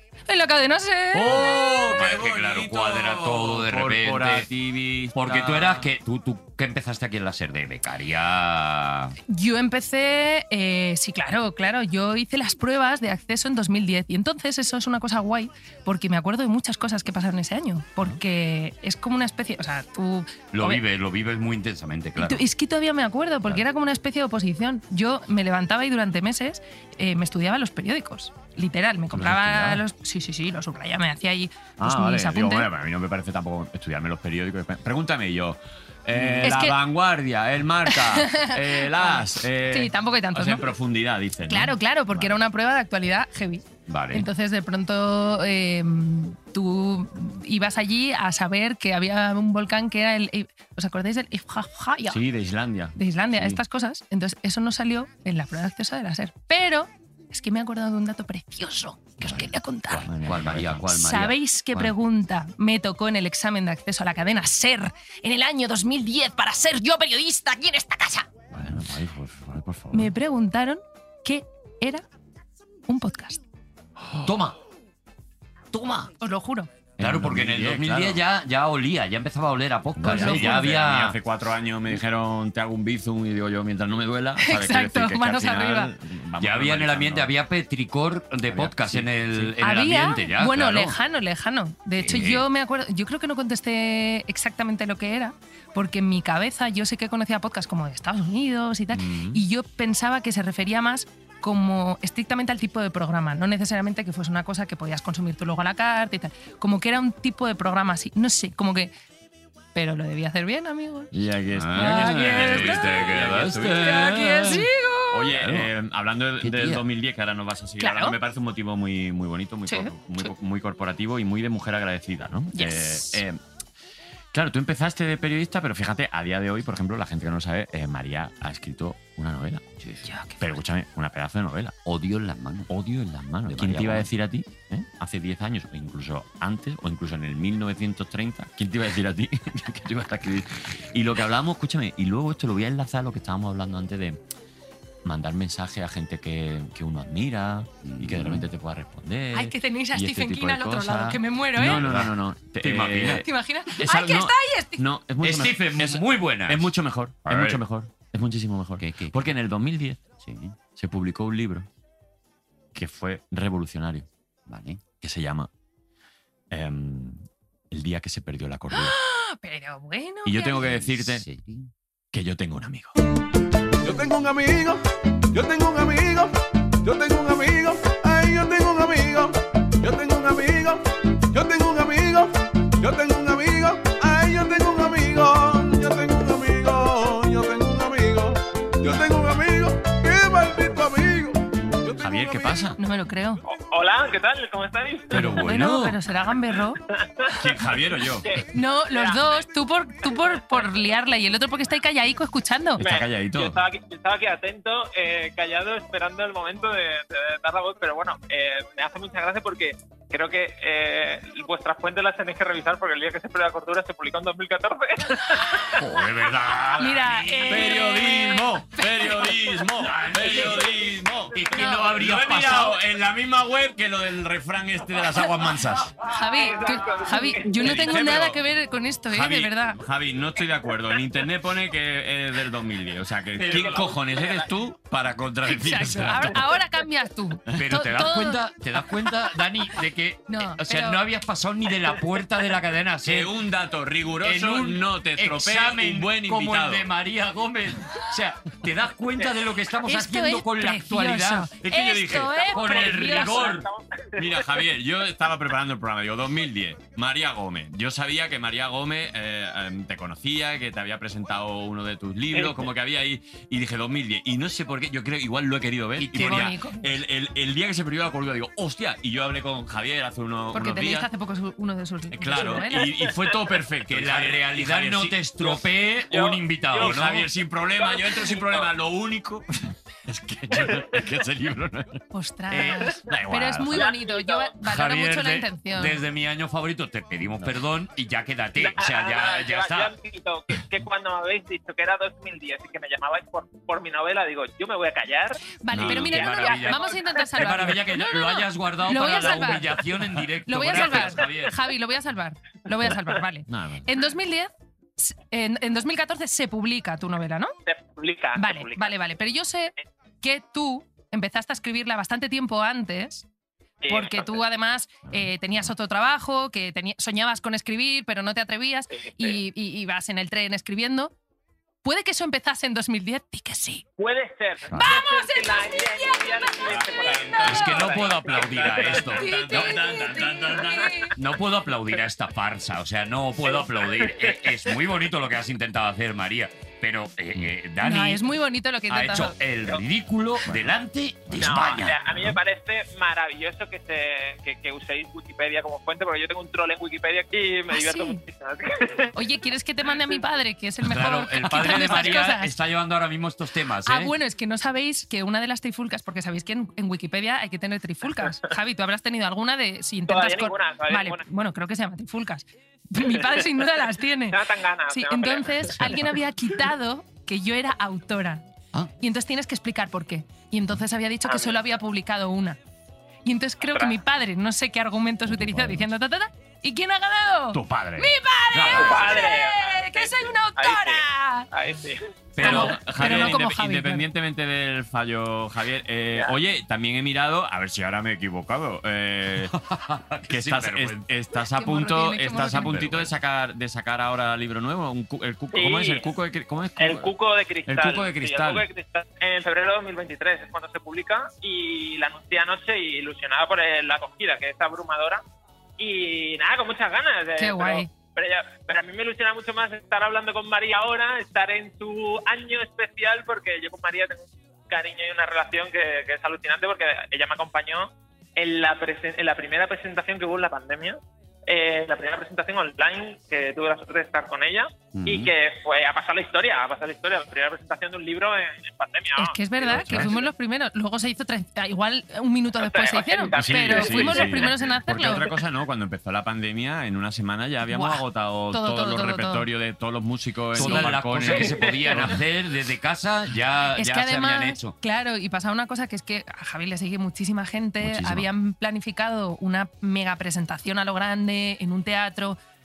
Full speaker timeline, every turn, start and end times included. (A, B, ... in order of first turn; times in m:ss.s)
0:00.3-0:01.7 A
0:01.1-0:05.9 B
0:01.8-0:04.5 C
0:05.1-0:09.2 C
0:09.3-0:20.8 A
0:20.5-0:22.4 C
0:22.2-0:32.7 A
0:29.1-0:29.8 B
0:31.8-0:42.3 B
0:36.1-0:36.6 C
0:36.4-0:36.8 A
0:37.9-0:40.7 A
0:41.4-0:52.2 A
0:43.9-0:44.3 C
0:52.1-0:53.6 B
0:53.0-1:00.1 A
0:59.2-1:00.9 B
1:00.1-1:01.9 C
1:00.9-1:08.3 A
1:08.5-1:10.1 B
1:09.9-1:12.0 A
1:12.9-1:13.4 A
1:14.0-1:14.3 B
1:14.2-1:14.6 C
1:15.7-1:16.1 C
1:16.2-1:16.7 A
1:17.0-1:18.2 B
1:17.0-1:21.2 C
1:20.0-1:27.3 B
1:20.1-1:20.7 A
1:24.4-1:25.9 A
1:26.4-1:31.0 C
1:28.5-1:29.5 B
1:29.6-1:48.9 A
1:32.0-1:32.4 C
1:38.9-1:39.4 B
1:49.7-1:51.2 A
1:51.1-1:54.4 B
1:51.5-1:54.7 C
1:51.8-1:55.3 A
1:55.1-2:03.4 B
1:55.3-1:55.7 C
1:56.4-1:56.8 C
1:57.8-1:58.2 A
1:59.7-2:00.3 A
2:02.5-2:03.2 A
2:04.3-2:09.6 B
2:09.8-2:10.1 C
2:10.1-2:10.5 A
2:10.4-2:11.8 B
2:11.8-2:12.7 C
2:12.7-2:24.2 B
2:13.5-2:14.1 C
2:25.0-2:40.0 B
2:27.8-2:28.5 C
2:29.3-2:31.8 A
2:30.9-2:33.2 C
2:33.1-2:34.8 A
2:35.2-2:36.7 C
2:37.2-2:37.6 C
2:38.8-2:39.2 C
2:40.2-2:40.6 C
2:40.8-2:41.7 B
2:42.7-2:44.1 B
2:44.5-2:44.8 C
2:45.0-2:45.5 B
2:46.5-2:48.9 B
2:48.7-2:50.6 A
2:50.2-2:51.2 B
2:50.6-2:51.7 C
2:52.1-2:52.9 B
2:53.8-2:54.8 D
2:55.3-3:12.7 D
3:11.9-3:12.8 B
3:12.8-3:13.4 A
3:13.4-3:15.3 E
3:15.1-3:16.0 C
3:15.1-3:15.4 B
3:15.2-3:16.8 A
3:17.0-3:19.4 E
3:17.4-3:18.3 B
3:18.5-3:22.8 A
3:22.8-3:23.6 B
3:22.8-3:35.8 E
3:35.3-3:35.7 A
3:35.8-3:37.8 C
3:36.8-3:39.3 A
3:37.4-3:45.9 B
3:39.8-3:40.8 C
3:41.3-3:42.8 C
3:41.6-3:41.9 A
3:46.0-3:49.8 A
3:46.2-3:47.9 E
3:47.6-3:48.4 B
3:49.1-3:56.4 B
3:53.5-3:54.5 E
3:55.4-3:58.4 A
3:57.5-4:03.3 C
4:00.3-4:01.0 A
4:03.0-4:06.9 B
4:04.2-4:13.7 C
4:09.9-4:13.6 A
4:11.6-4:13.3 B
4:12.2-4:14.5 E
4:14.2-4:31.1 B
4:26.0-4:26.5 C
4:26.1-4:26.9 A
4:30.5-4:32.9 A
4:32.1-4:35.2 B
4:33.9-4:37.3 C
4:36.1-4:37.0 E
4:36.7-4:42.0 B
4:37.8-4:38.7 E
4:42.1-4:46.0 A
4:43.0-4:43.8 B
4:43.7-4:44.6 E
4:44.6-4:49.9 C
4:48.6-4:55.4 E
4:55.6-4:59.8 A
4:55.7-4:56.2 B
4:55.7-5:01.6 C
4:56.0-4:57.3 E
5:00.4-5:07.5 A
5:03.5-5:03.9 B
5:07.6-5:09.0 E
5:08.4-5:13.2 A
5:13.8-5:14.3 E
5:13.9-5:21.1 A
5:15.1-5:15.7 B
5:18.9-5:19.4 E
5:21.8-5:23.8 A
5:24.0-5:29.1 E
5:24.7-5:28.0 A
5:26.9-5:27.5 B
5:27.4-5:29.7 C
5:28.6-5:31.1 B
5:29.1-5:31.1 A
5:31.2-5:38.3 C
5:33.4-5:34.8 E
5:37.8-5:39.3 A
5:38.9-5:42.4 C
5:40.4-5:40.7 B
5:41.3-5:41.6 B
5:41.4-5:49.1 E
5:47.7-5:48.2 A
5:49.1-5:52.5 A
5:49.9-5:50.2 E
5:50.8-5:54.1 C
5:53.8-6:08.5 A
6:00.1-6:01.2 E
6:03.0-6:03.6 E
6:04.3-6:06.0 E
6:09.0-6:12.6 A
6:11.2-6:11.6 E
6:13.2-6:21.5 A
6:13.6-6:14.0 E
6:15.2-6:15.9 B
6:17.5-6:19.0 B
6:18.6-6:19.2 C
6:18.7-6:22.0 E
6:22.4-6:23.4 C
6:22.4-6:24.1 A
6:22.4-6:29.5 B
6:29.5-6:31.0 C
6:30.3-6:37.1 B
6:31.5-6:32.9 A
6:32.7-6:33.0 C
6:35.5-6:36.1 E
6:36.8-6:45.2 E
6:37.6-6:38.6 B
6:45.8-7:10.3 E
6:47.4-6:47.9 A
7:04.9-7:05.3 C
7:09.2-7:15.3 A
7:09.7-7:10.1 B
7:12.6-7:14.5 E
7:13.3-7:22.2 B
7:17.7-7:19.5 A
7:20.5-7:24.8 C
7:20.6-7:20.9 A
7:21.2-7:22.1 E
7:23.8-7:32.4 A
7:27.8-7:28.3 B